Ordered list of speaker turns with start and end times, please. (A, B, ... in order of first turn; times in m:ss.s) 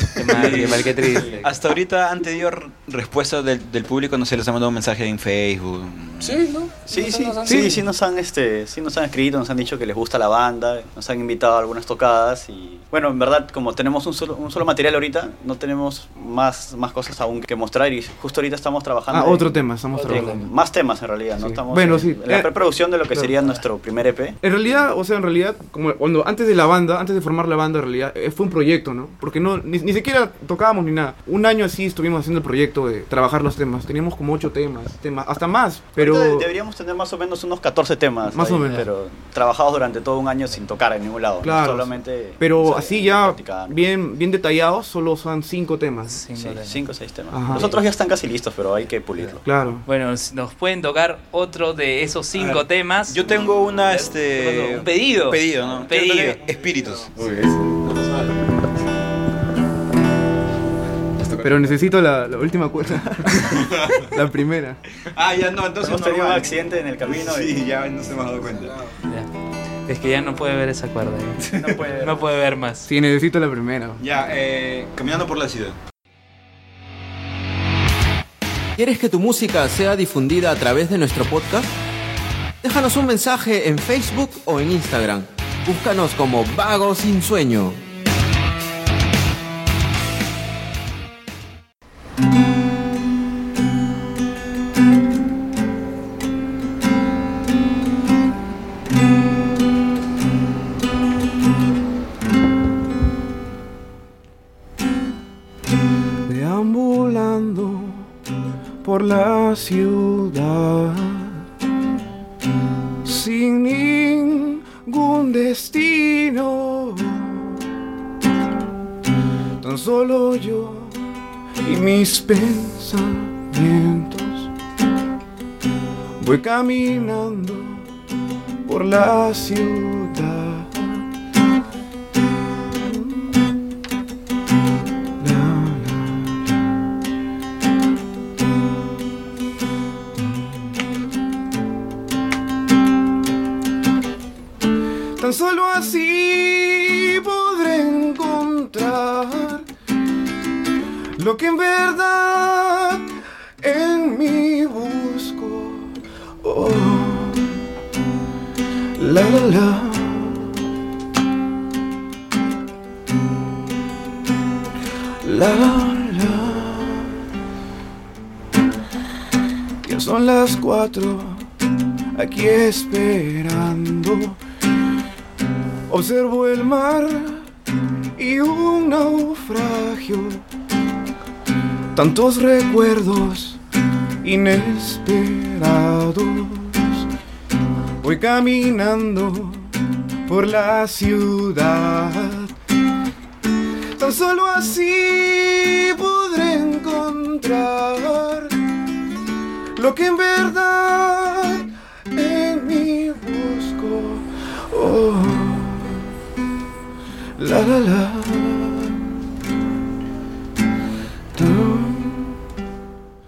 0:00.2-0:01.5 A
0:00.4-0:06.4 B
0:00.4-0:00.8 C
0:06.2-0:07.8 C
0:06.9-0:24.8 D
0:07.5-0:07.8 E
0:19.1-0:20.5 E
0:19.9-0:20.4 A
0:21.4-0:22.5 E
0:24.4-0:36.5 E
0:36.0-0:43.8 D
0:38.3-0:38.9 E
0:41.4-0:46.2 E
0:46.0-0:46.8 A
0:46.4-0:49.4 D
0:47.3-0:47.8 E
0:49.4-0:49.8 E
0:49.8-0:53.3 A
0:53.1-0:57.2 B
0:53.8-0:56.4 A
0:57.2-0:58.3 C
1:01.2-1:01.8 C
1:01.4-1:04.8 E
1:03.5-1:04.1 B
1:05.2-1:08.8 B
1:05.8-1:07.6 D
1:08.4-1:08.9 C
1:09.9-1:12.9 A
1:11.4-1:12.2 B
1:12.9-1:14.0 E
1:14.0-1:15.8 B
1:18.8-1:21.7 F
1:22.6-1:27.8 F
1:46.3-1:48.1 E
1:48.8-1:51.4 E
1:53.0-1:57.6 E
1:59.6-2:01.0 E
2:01.6-2:04.5 E
2:06.2-2:07.9 E
2:08.7-2:11.1 E
2:12.8-2:13.4 E
2:15.2-2:16.6 E
2:20.2-2:20.5 E
2:25.2-2:29.7 E
2:31.2-2:33.1 E
2:33.6-2:37.6 E
2:39.0-2:40.6 E
2:45.2-2:47.2 E
2:49.8-2:51.5 E
2:52.2-2:54.4 E
2:55.9-2:57.5 E
2:58.2-3:00.4 E
3:02.0-3:03.6 E
3:04.2-3:07.1 E
3:08.0-3:09.8 E
3:10.3-3:12.5 E
3:14.0-3:18.5 E
3:19.8-3:26.0 E
3:27.4-3:29.0 E
3:31.4-3:32.4 E